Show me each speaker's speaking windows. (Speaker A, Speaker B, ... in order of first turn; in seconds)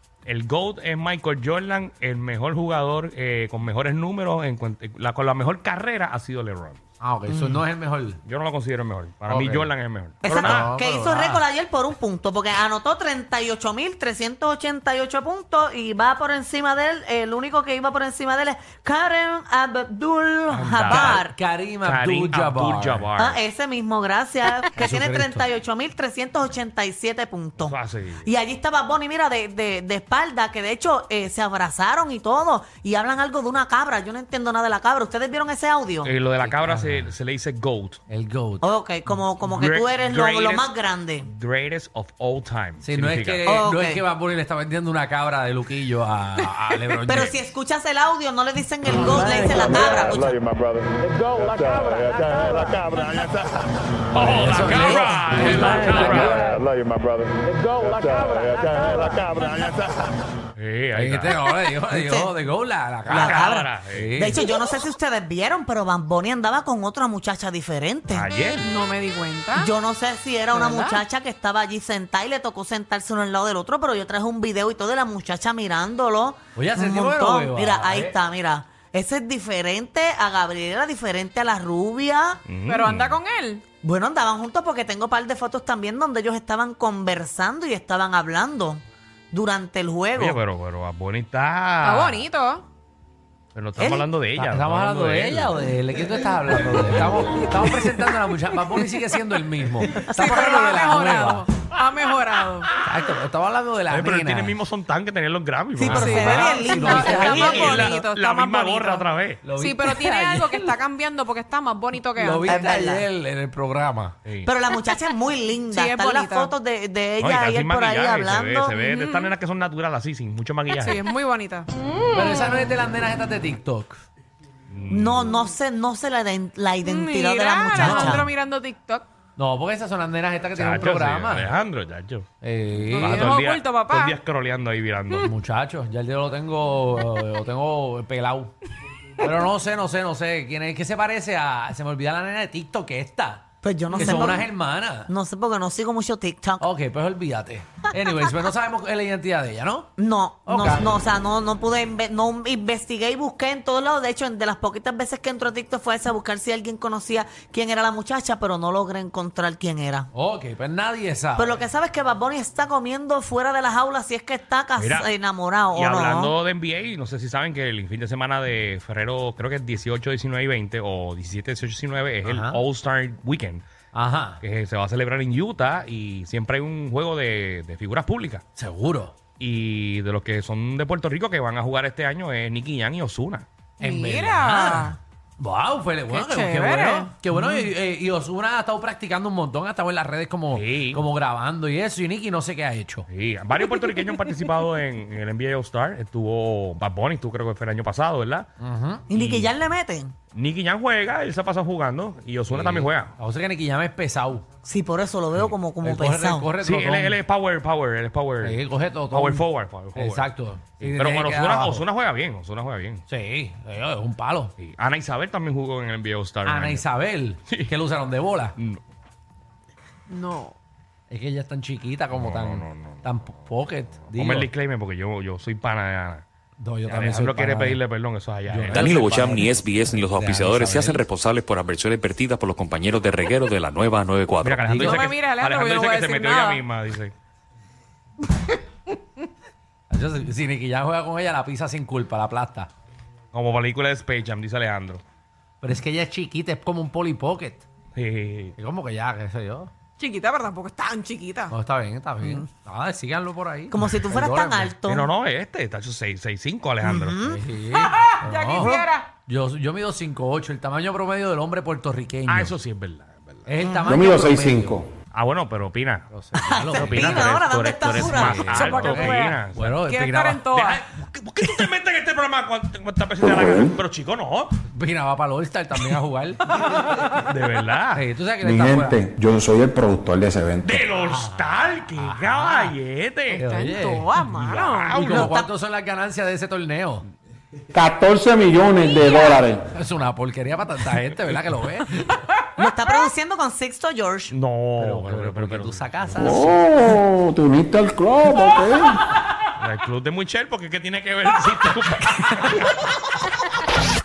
Speaker A: 0.2-6.8, 8.2-10.7, 20.5-21.2, 21.8-23.4, 27.6-28.3, 36.0-38.0, 39.5-43.6, 54.1-56.6, 60.5-61.4, 63.1-64.2, 68.1-68.7, 82.5-83.2, 90.2-92.2, 93.5-95.5, 103.9-109.5, 114.2-114.5, 117.2-121.1, 124.7-125.3, 130.5-132.3, 132.9-135.3, 164.8-165.1, 165.7-173.6, 174.4-178.4, 179.4-183.4, 190.5-191.0, 193.1-198.5, 199.1-199.5, 200.3-203.1, 206.6-213.0, 214.6-216.8, 222.1-223.0, 224.1-226.2, 226.9-229.0, 234.4-237.1, 243.3-245.0, 247.9-248.5, 254.9-257.2, 262.3-263.5, 265.1-266.1, 266.7-269.8, 270.5-274.6, 277.1-278.1, 280.6-283.4, 284.3-285.3, 294.3-296.3, 299.6-302.7
Speaker B: 7.0-8.2, 9.3-9.7, 10.3-11.4, 20.8-23.1, 24.8-25.5, 36.4-37.1, 38.1-38.6, 42.8-47.4, 54.1-56.4, 60.9-64.4, 76.5-78.2, 94.3-101.5, 102.7-104.6, 105.8-108.0, 109.4-110.8, 112.2-114.2, 122.1-124.0, 127.8-128.3, 129.3-131.5, 132.4-133.3, 135.2-138.5, 139.2-145.1, 146.6-149.9, 150.4-150.9, 160.1-161.6, 172.2-172.6, 173.9-174.4, 178.6-179.2, 183.8-193.1, 198.6-199.1, 202.5-204.4, 205.8-207.2, 208.4-211.8, 213.1-214.5, 216.4-218.6, 221.1-224.5, 226.6-227.8, 228.5-231.0, 239.9-242.7, 245.6-247.6, 248.6-249.7, 251.5-254.8, 257.2-262.5, 263.4-264.8, 266.1-267.4, 268.0-270.5, 274.7-276.6, 277.9-279.0, 281.0-282.7, 283.3-284.3, 284.9-287.0, 289.6-292.2, 294.8-296.7
Speaker C: 10.2-21.3, 23.2-36.1, 38.6-41.3, 43.4-44.0, 47.0-50.4, 61.9-62.3, 63.0-68.3, 69.5-82.4, 83.8-90.4, 93.8-94.0, 105.8-108.0, 112.4-113.0, 114.4-118.8, 124.9-128.3, 143.6-144.5, 145.0-146.7, 150.0-160.1, 161.3-166.3, 199.1-200.1, 204.6-206.5, 252.2-252.4, 253.7-255.1, 256.8-257.4, 258.6-258.8, 263.6-263.9, 266.3-268.4, 285.0-285.5, 292.6-294.3
Speaker D: 49.2-53.6, 55.6-60.1
Speaker E: 51.8-52.3, 58.7-59.3, 68.6-69.7, 70.5-71.0, 82.7-83.6, 91.8-92.7, 100.1-102.7, 105.9-112.7, 115.7-116.5, 118.7-119.3, 120.8-122.6, 126.8-129.1, 132.9-134.1, 183.8-185.0, 186.1-187.6, 220.1-220.5, 234.8-236.6, 250.0-251.5, 257.8-259.1, 268.5-270.8, 283.5-284.9, 288.8-289.4
Speaker F: 228.8-234.8
Speaker G: 263.9-264.9, 273.2-273.7, 278.4-280.8, 287.7-289.6, 296.2-298.9